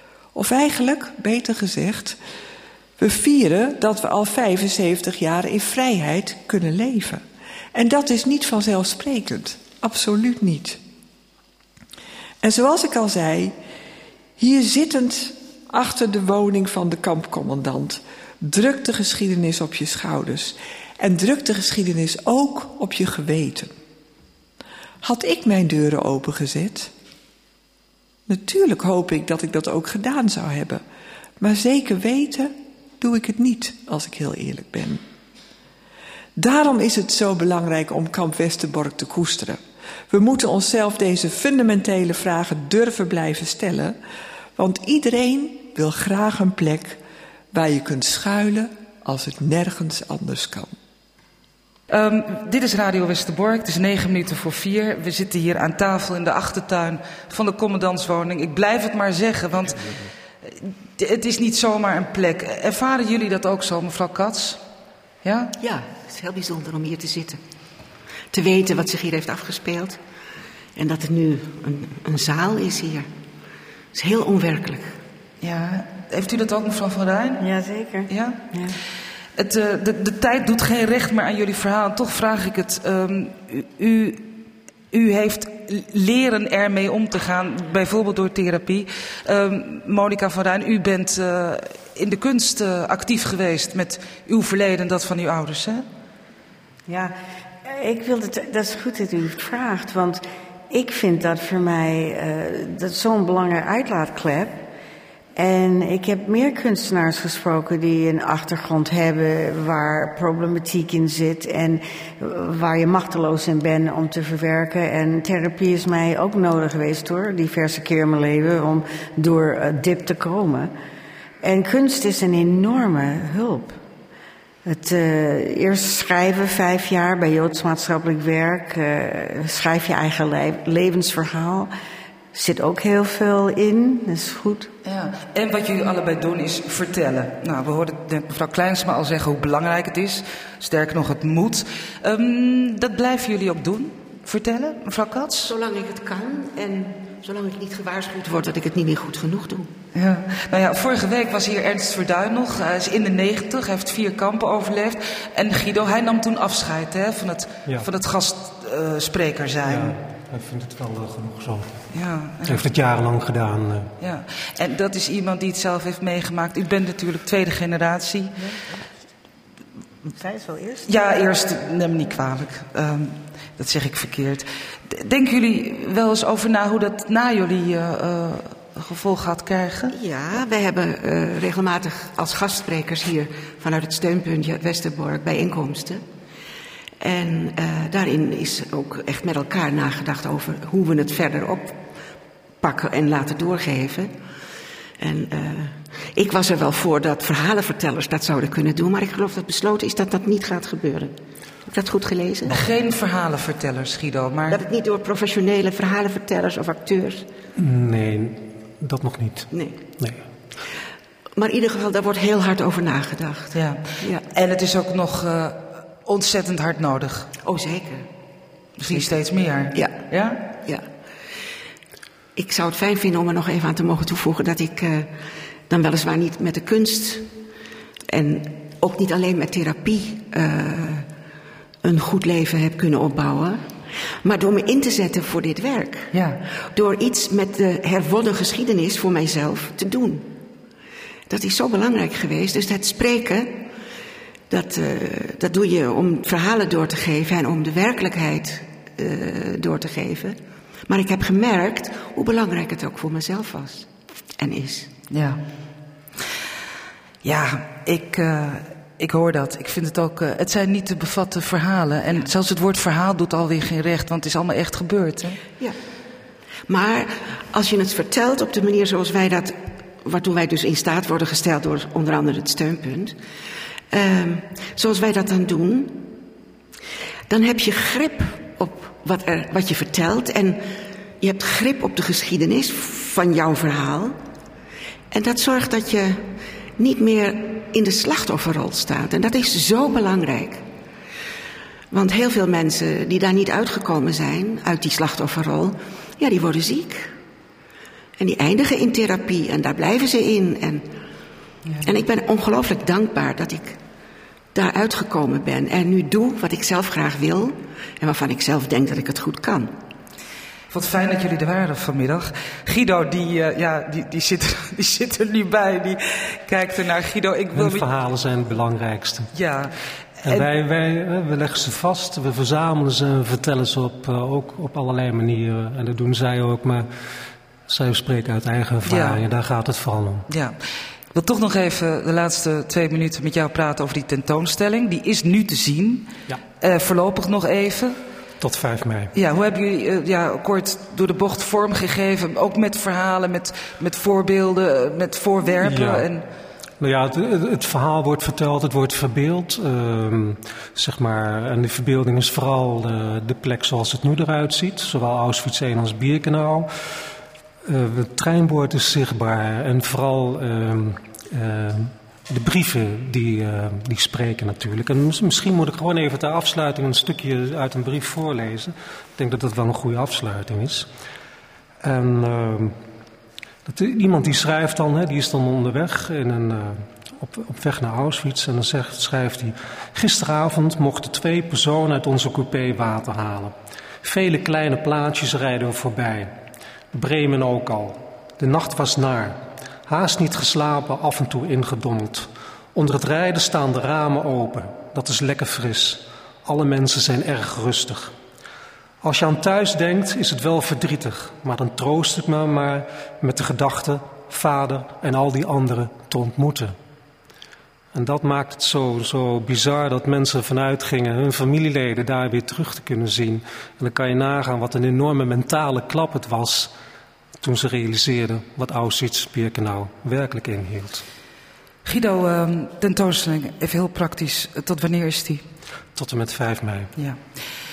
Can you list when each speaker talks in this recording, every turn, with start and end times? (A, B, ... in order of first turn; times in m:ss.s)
0:00.4-0:02.2 A
0:03.0-0:10.8 A
0:12.4-0:13.6 A
0:14.4-0:23.7 A
0:25.0-0:26.9 A
0:28.3-0:30.8 A
0:31.4-0:35.0 A
0:36.4-0:44.0 A
0:44.6-0:47.0 A
0:47.5-0:50.7 A
0:51.9-1:04.6 B
1:05.2-1:05.5 B
1:05.6-1:07.4 C
1:08.3-1:10.0 C
1:10.8-1:13.1 C
1:13.9-1:15.0 C
1:15.4-1:17.4 B
1:17.4-1:18.8 D
1:18.1-1:18.4 B
1:19.4-1:24.3 B
1:24.9-1:35.9 B
1:36.9-1:44.7 D
1:45.4-2:00.7 D
2:01.4-2:03.8 D
2:04.6-2:11.7 D
2:12.3-2:14.7 D
2:14.8-2:25.5 B
2:25.4-2:29.7 C
2:29.9-2:40.0 B
2:39.7-2:41.7 E
2:41.9-2:42.6 B
2:42.4-2:43.9 E
2:44.0-2:48.4 B
2:50.2-2:50.9 D
2:50.8-2:59.9 B
2:59.9-3:06.0 C
3:07.0-3:11.8 C
3:12.6-3:14.1 C
3:15.0-3:21.1 C
3:21.7-3:22.6 C
3:22.5-3:24.6 B
3:24.5-3:27.3 C
3:27.6-3:30.2 E
3:29.5-3:29.8 C
3:31.4-3:34.2 C
3:33.5-3:37.3 B
3:37.4-3:38.1 C
3:38.8-3:40.5 B
3:39.7-3:40.0 C
3:42.4-3:45.1 C
3:45.7-3:47.3 C
3:48.1-3:51.1 C
3:51.8-3:53.6 C
3:54.2-3:56.1 C
3:56.1-3:56.4 B
3:56.7-4:00.3 C
4:01.3-4:03.6 C
4:04.5-4:14.9 C
4:15.1-4:15.4 B
4:17.2-4:25.4 B
4:26.7-4:33.2 C
4:33.9-4:36.1 C
4:37.3-4:40.7 C
4:41.2-4:44.2 C
4:45.1-4:46.2 C
4:46.8-4:50.6 C
4:51.9-4:57.1 C
4:58.2-5:00.9 C
5:01.8-5:03.8 C
5:04.5-5:09.7 C
5:10.7-5:17.8 B
5:17.6-5:19.3 E
5:19.3-5:20.5 B
5:20.2-5:26.9 E
5:27.7-5:30.3 E
5:28.8-5:29.2 B
5:30.3-5:30.6 B
5:31.1-5:38.0 B
5:38.4-5:39.1 E
5:39.1-5:46.2 B
5:45.6-5:46.1 E
5:46.8-5:56.7 E
5:57.7-6:10.9 E
6:11.8-6:12.8 E
6:13.7-6:26.3 E
6:26.9-6:38.1 E
6:39.0-6:46.8 E
6:47.9-6:56.7 E
6:57.4-7:01.0 E
7:01.8-7:05.4 B
7:06.0-7:06.9 E